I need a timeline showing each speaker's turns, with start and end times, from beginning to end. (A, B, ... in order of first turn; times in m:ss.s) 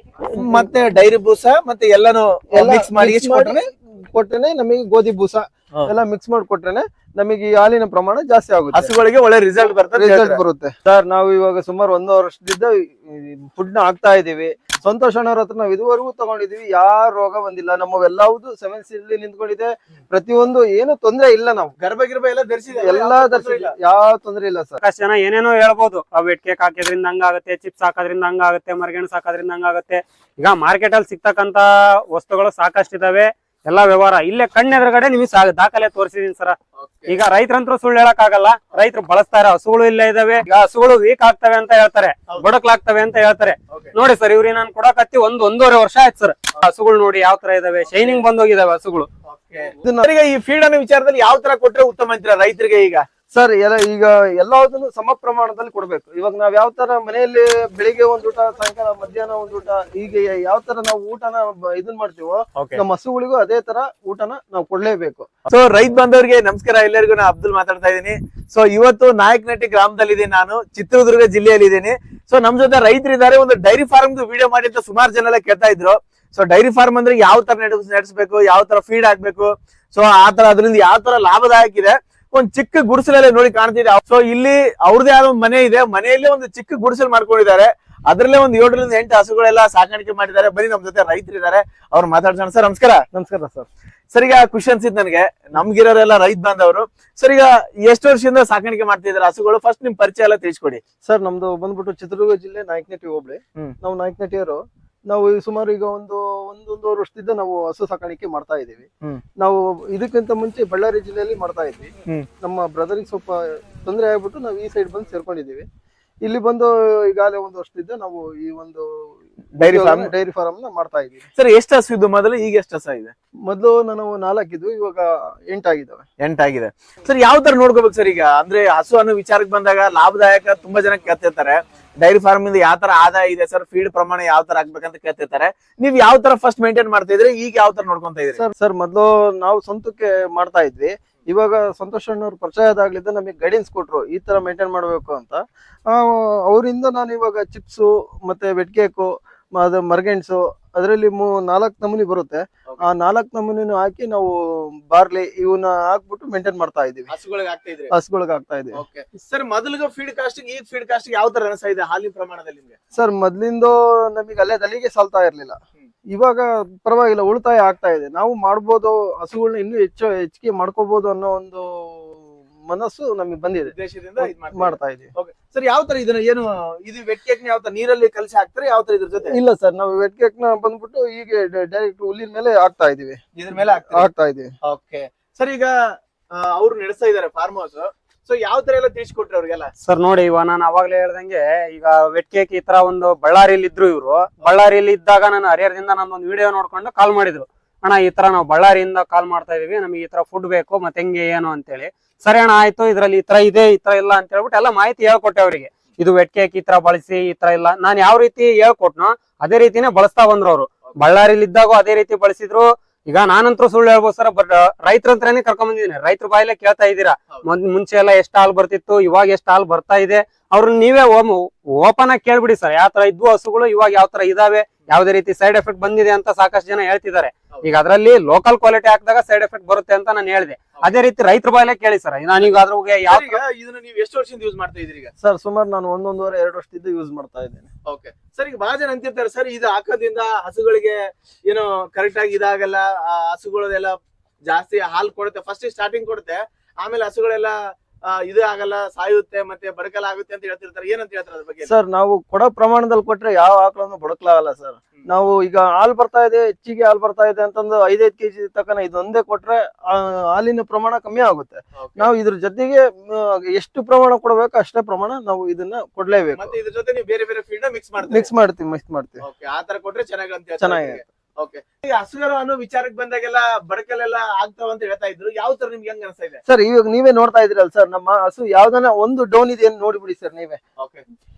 0:00.2-0:03.6 A
0:02.5-0:08.9 B
0:08.7-0:10.4 A
0:09.9-0:21.7 B
0:21.8-0:23.7 A
0:22.7-0:24.8 B
0:24.8-0:36.6 C
0:36.8-0:37.2 A
0:37.1-0:49.1 C
0:47.9-0:48.2 A
0:49.2-0:53.0 A
0:49.8-0:50.1 B
0:53.3-1:05.3 B
1:02.6-1:02.8 A
1:05.5-1:33.0 A
1:33.1-1:33.7 B
1:34.1-1:40.8 A
1:41.0-1:48.9 B
1:49.4-1:55.6 B
1:56.2-2:01.3 B
1:59.6-2:00.1 A
2:01.3-2:03.1 A
2:03.5-2:06.0 B
2:06.2-2:18.4 A
2:18.4-2:37.1 B
2:37.1-2:37.9 A
2:37.9-2:38.8 B
2:38.7-2:42.8 A
2:42.9-2:45.6 B
2:46.1-2:55.1 B
2:53.7-2:59.4 A
2:59.3-3:03.2 B
3:03.4-3:04.1 A
3:03.9-3:04.5 B
3:04.6-3:09.7 A
3:09.8-3:53.4 C
3:53.1-3:55.1 A
3:55.2-3:57.7 B
3:57.8-4:04.0 A
4:04.5-4:07.6 A
4:08.1-4:11.7 A
4:11.6-4:26.5 B
4:21.8-4:22.1 A
4:26.3-4:28.3 A
4:28.0-4:29.2 B
4:29.2-4:36.4 A
4:30.6-4:31.0 B
4:36.4-4:40.6 B
4:40.8-4:41.0 A